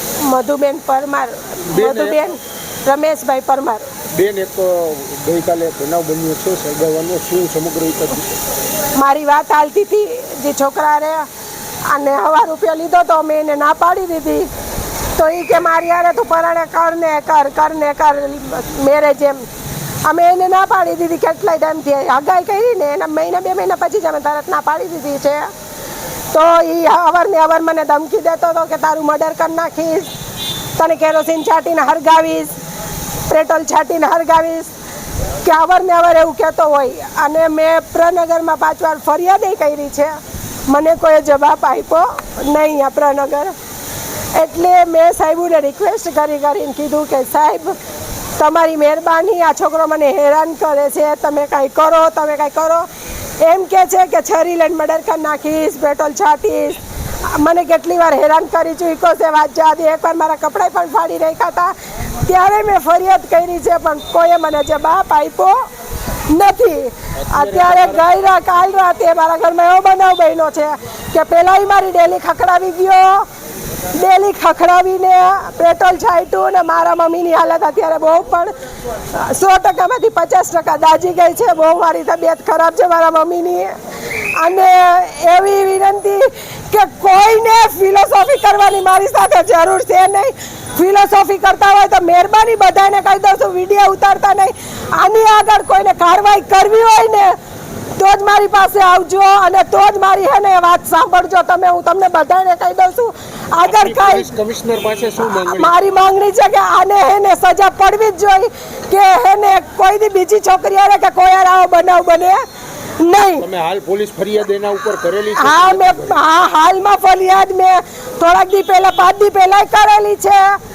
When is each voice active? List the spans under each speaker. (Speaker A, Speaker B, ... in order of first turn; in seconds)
Speaker A: 0.2-3.9, 8.9-11.3, 11.9-14.5, 15.1-19.5, 20.0-25.5, 26.3-30.1, 30.8-32.5, 33.3-34.7, 35.4-43.5, 44.3-47.8, 48.4-65.7, 66.3-73.3, 73.9-78.5, 79.1-83.8, 84.3-97.3, 98.0-104.3, 105.3-112.4, 113.0-113.5, 115.3-120.6
Speaker B: 1.7-2.3, 4.1-8.3, 67.2-68.0, 103.6-105.8, 113.4-116.2